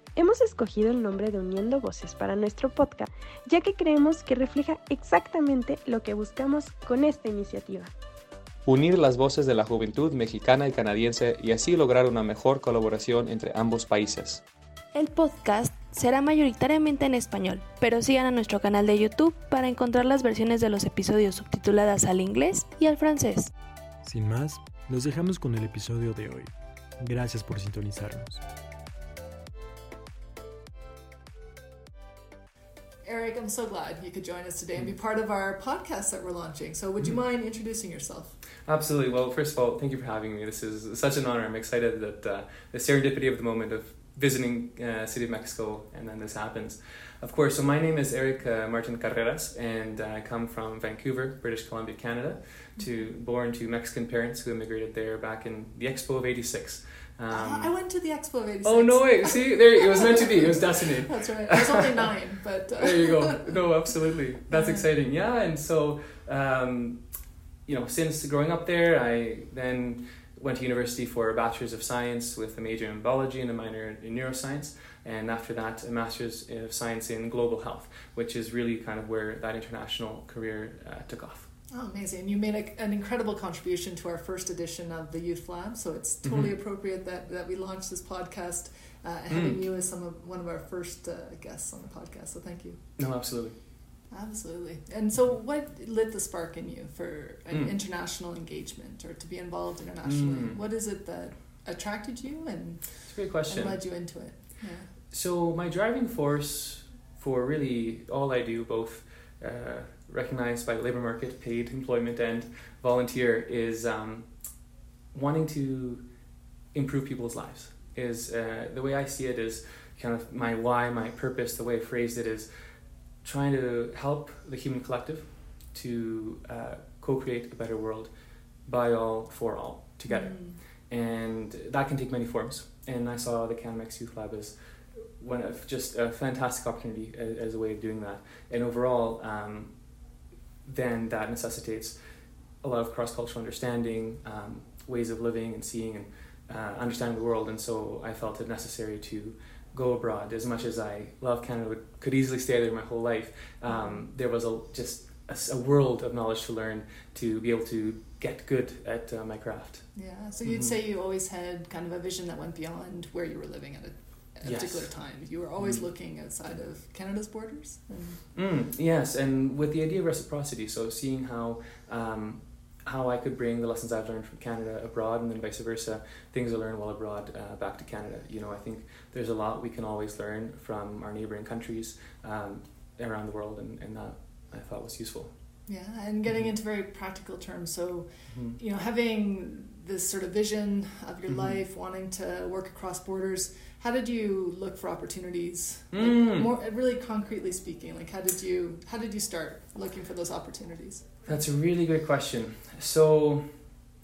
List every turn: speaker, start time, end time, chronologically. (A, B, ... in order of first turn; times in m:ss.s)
0:00.3-0:07.9 A
0:08.7-0:14.4 B
0:15.0-0:23.5 C
0:24.0-0:28.4 D
0:33.0-0:38.4 E
0:38.7-0:57.7 B
0:52.8-0:53.1 E
0:57.3-1:03.6 E
0:58.6-1:02.0 B
1:02.8-1:07.0 B
1:04.5-1:04.8 E
1:07.7-1:21.5 B
1:21.7-1:32.8 E
1:26.2-1:26.5 B
1:29.3-1:29.6 B
1:33.0-1:33.6 B
1:34.1-1:44.9 E
1:40.0-1:40.6 B
1:43.1-1:43.8 B
1:45.1-1:54.3 B
1:55.1-1:56.0 B
1:56.7-2:02.5 B
2:03.2-2:08.1 B
2:08.7-2:10.4 B
2:10.1-2:10.6 E
2:10.9-2:14.6 B
2:15.2-2:19.7 B
2:20.7-2:22.0 B
2:22.6-2:39.9 B
2:33.7-2:34.0 E
2:40.0-2:48.2 E
2:40.4-2:40.8 B
2:44.4-2:44.9 B
2:45.6-2:45.9 B
2:48.4-3:05.3 B
3:05.7-3:21.3 E
3:08.3-3:08.6 B
3:11.3-3:11.6 B
3:15.9-3:16.5 B
3:21.2-3:23.5 B